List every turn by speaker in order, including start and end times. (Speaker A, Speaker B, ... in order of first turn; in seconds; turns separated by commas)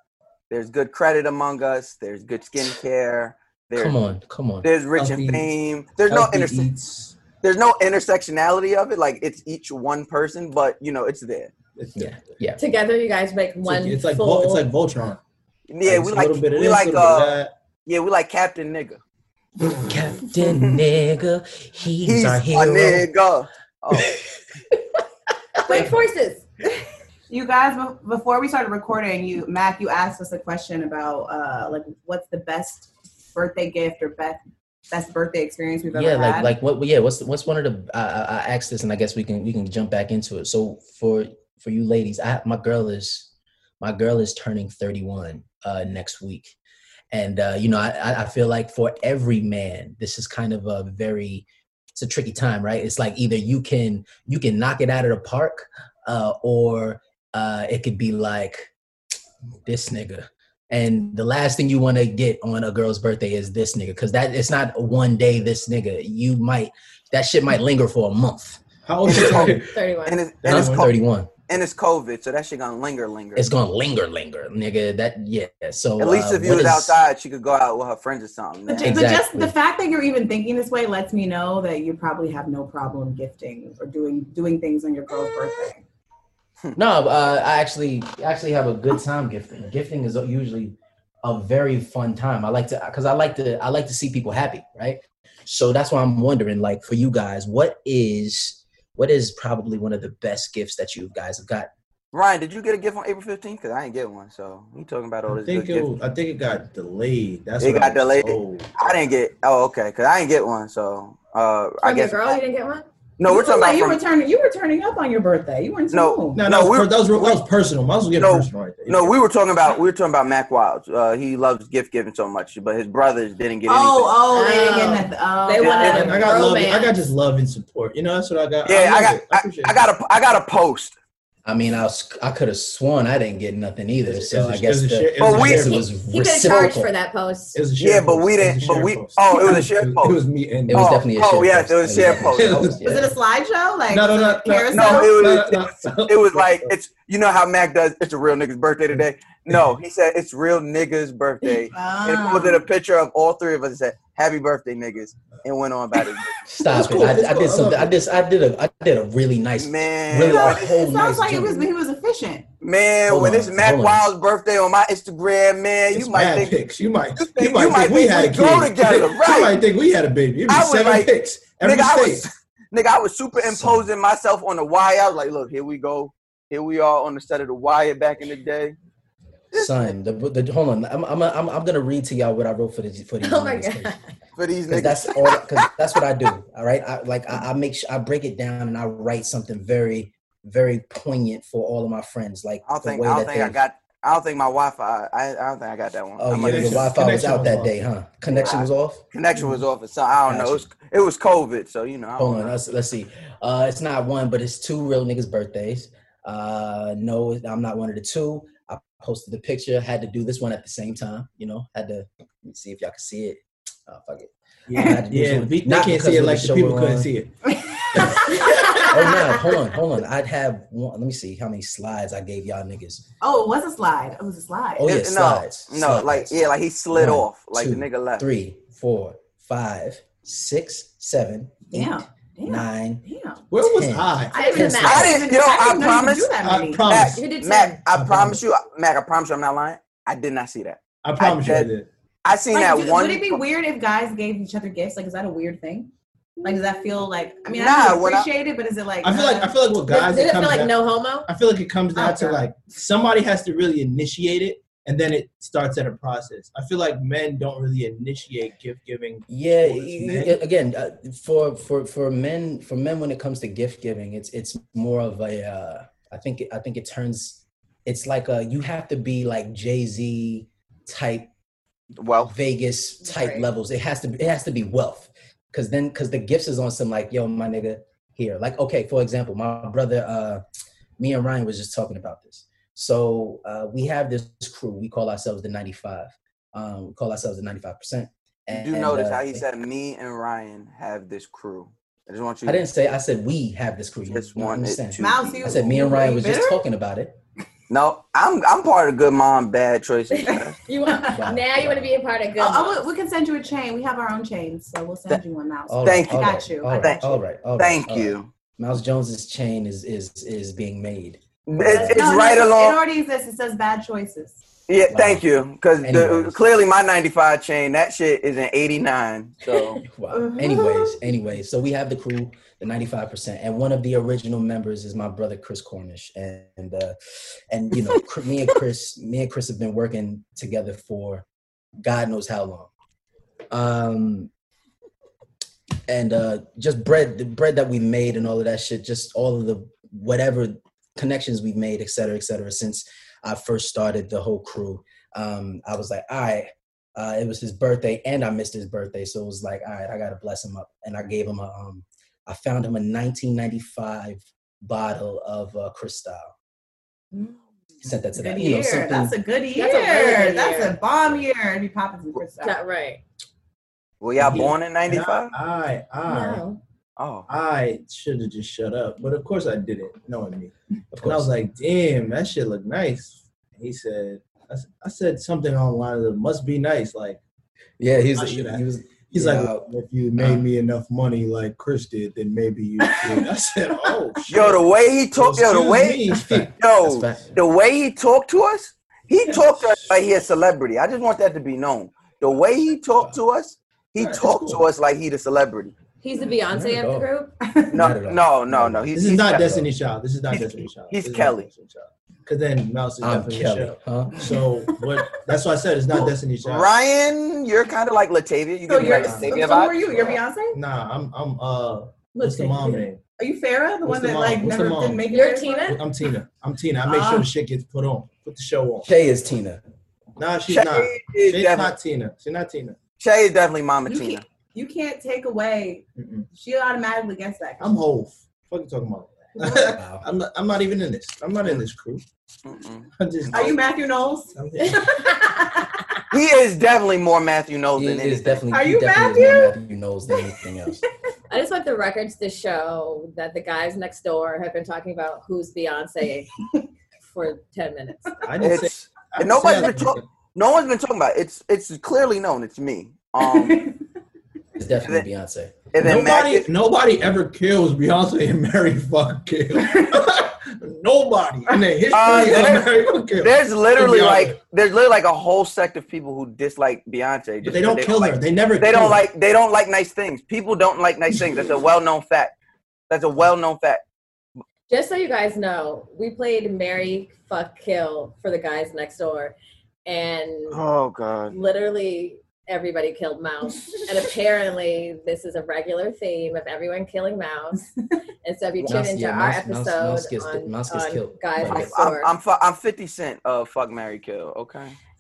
Speaker A: 0.5-4.0, Speaker B: 3.8-4.7, Speaker A: 4.6-6.7, Speaker C: 5.0-5.5, Speaker C: 6.1-7.2, Speaker A: 7.4-11.5, Speaker C: 11.8-12.2, Speaker B: 12.0-12.6, Speaker D: 12.6-14.7, Speaker C: 13.6-15.2, Speaker A: 15.7-19.0, Speaker C: 15.8-17.5, Speaker B: 19.8-23.1, Speaker A: 22.0-24.2, Speaker D: 25.7-26.4, Speaker E: 27.3-36.5, Speaker B: 35.9-46.5, Speaker B: 47.1-58.7, Speaker B: 59.6-69.6, Speaker C: 68.9-69.7, Speaker A: 69.1-70.9, Speaker D: 69.7-70.2, Speaker C: 70.4-70.9, Speaker B: 70.4-71.3, Speaker A: 71.5-73.5, Speaker B: 73.4-77.0, Speaker A: 76.0-79.0, Speaker E: 78.7-85.8, Speaker B: 78.8-79.5, Speaker B: 86.8-101.7, Speaker A: 102.1-105.9, Speaker C: 105.3-109.1, Speaker A: 107.6-112.4, Speaker D: 111.8-112.9, Speaker A: 113.2-114.0, Speaker E: 113.3-116.4, Speaker A: 115.9-117.4, Speaker C: 116.4-119.2, Speaker A: 118.2-124.8, Speaker E: 123.7-126.3, Speaker D: 124.3-127.0, Speaker A: 125.6-126.0, Speaker C: 125.7-129.8, Speaker A: 128.7-131.0, Speaker B: 131.4-136.9, Speaker C: 134.1-135.9, Speaker A: 135.2-135.9, Speaker D: 136.1-137.6, Speaker C: 137.5-141.0, Speaker A: 137.8-140.2, Speaker B: 140.7-143.1, Speaker A: 140.7-142.7, Speaker C: 142.2-142.8, Speaker E: 142.8-145.4, Speaker C: 143.9-146.7, Speaker A: 144.7-156.5, Speaker E: 151.7-152.6, Speaker B: 156.5-161.7, Speaker C: 156.6-157.9, Speaker A: 159.6-160.7, Speaker E: 160.2-162.5, Speaker A: 162.6-166.6, Speaker B: 163.1-164.1, Speaker C: 165.9-172.3, Speaker A: 167.2-169.6, Speaker A: 170.5-178.8, Speaker B: 173.4-173.9, Speaker A: 179.5-179.9, Speaker B: 179.6-184.0, Speaker D: 183.2-184.1, Speaker A: 184.4-185.2, Speaker B: 184.7-193.6, Speaker A: 192.7-196.9, Speaker B: 196.2-199.0, Speaker C: 196.4-197.8, Speaker A: 198.4-202.6, Speaker B: 200.3-200.7, Speaker B: 202.2-217.1, Speaker C: 214.7-217.3, Speaker E: 217.5-219.2, Speaker C: 218.3-218.8, Speaker B: 218.4-223.1, Speaker E: 223.2-224.9, Speaker B: 224.8-226.4, Speaker A: 224.8-228.3, Speaker B: 226.9-233.1, Speaker E: 231.7-233.5, Speaker C: 233.5-234.3, Speaker B: 233.6-235.1, Speaker E: 234.3-236.9, Speaker D: 234.3-235.2, Speaker A: 234.8-236.3, Speaker C: 236.4-237.2, Speaker A: 236.9-241.7, Speaker D: 237.0-237.8, Speaker C: 237.9-238.4, Speaker C: 241.0-241.9, Speaker A: 242.2-243.4, Speaker E: 242.5-245.9, Speaker E: 246.4-249.6, Speaker A: 247.5-248.3, Speaker C: 249.0-260.4, Speaker D: 249.9-251.3, Speaker E: 251.9-252.4, Speaker B: 259.3-271.3, Speaker A: 272.0-272.3, Speaker B: 272.2-280.4, Speaker D: 273.0-273.5, Speaker B: 281.0-289.4, Speaker A: 288.5-292.6, Speaker B: 292.4-297.2, Speaker A: 294.1-295.4, Speaker E: 295.0-296.6, Speaker A: 297.7-300.6, Speaker D: 300.1-302.8, Speaker E: 300.3-301.2, Speaker B: 301.1-301.9, Speaker E: 302.4-307.2, Speaker B: 305.7-312.1, Speaker A: 305.8-306.2, Speaker A: 306.8-307.1, Speaker A: 307.6-308.3, Speaker A: 311.5-312.8, Speaker E: 311.7-314.4, Speaker A: 314.7-319.8, Speaker B: 314.9-315.2, Speaker B: 315.8-316.4, Speaker B: 319.9-327.0, Speaker E: 320.1-320.9, Speaker B: 327.5-331.2, Speaker B: 331.8-332.7, Speaker B: 333.5-334.3, Speaker B: 335.9-356.3, Speaker E: 357.1-357.4, Speaker B: 357.8-359.1, Speaker E: 358.1-362.6, Speaker D: 359.6-360.8, Speaker D: 362.4-363.0, Speaker A: 364.0-365.3, Speaker C: 364.2-366.4, Speaker D: 366.1-366.6, Speaker A: 367.0-367.3, Speaker C: 367.3-377.2, Speaker B: 370.9-371.3, Speaker B: 377.8-380.4, Speaker C: 378.1-386.5, Speaker E: 382.8-383.2, Speaker A: 384.3-395.7, Speaker B: 386.1-387.3, Speaker C: 394.0-394.6, Speaker D: 396.0-397.4, Speaker B: 396.5-397.1, Speaker E: 397.5-397.9, Speaker A: 397.7-399.6, Speaker B: 397.7-399.7, Speaker C: 398.9-406.7, Speaker A: 400.9-401.5, Speaker B: 403.0-404.2, Speaker E: 404.2-405.2, Speaker A: 406.4-410.2, Speaker E: 408.7-410.6, Speaker C: 408.8-409.5, Speaker C: 410.5-413.0, Speaker E: 412.2-415.8, Speaker C: 413.9-415.1, Speaker D: 415.1-415.8, Speaker C: 415.7-418.9, Speaker E: 416.9-417.3, Speaker B: 418.9-419.6, Speaker C: 420.2-422.8, Speaker A: 420.5-421.7, Speaker A: 423.0-424.2, Speaker E: 423.9-427.8, Speaker C: 426.0-426.3, Speaker C: 427.6-432.0, Speaker B: 429.5-430.0, Speaker A: 432.4-432.9, Speaker C: 433.0-433.6, Speaker E: 433.3-435.8, Speaker C: 434.4-435.0, Speaker A: 436.1-438.4, Speaker B: 437.8-440.8, Speaker E: 438.5-439.6, Speaker D: 441.3-446.3, Speaker D: 447.1-448.1, Speaker C: 448.2-450.0, Speaker A: 448.4-453.7, Speaker E: 453.2-453.8, Speaker B: 454.6-455.6, Speaker A: 455.7-456.5, Speaker C: 455.8-464.4, Speaker E: 461.5-462.3, Speaker A: 461.9-472.4, Speaker C: 467.4-469.0, Speaker A: 472.9-473.8, Speaker D: 474.7-479.4, Speaker D: 479.9-480.6, Speaker A: 480.5-481.4, Speaker D: 481.3-487.6, Speaker D: 488.2-492.1, Speaker B: 488.6-491.7, Speaker A: 491.4-494.8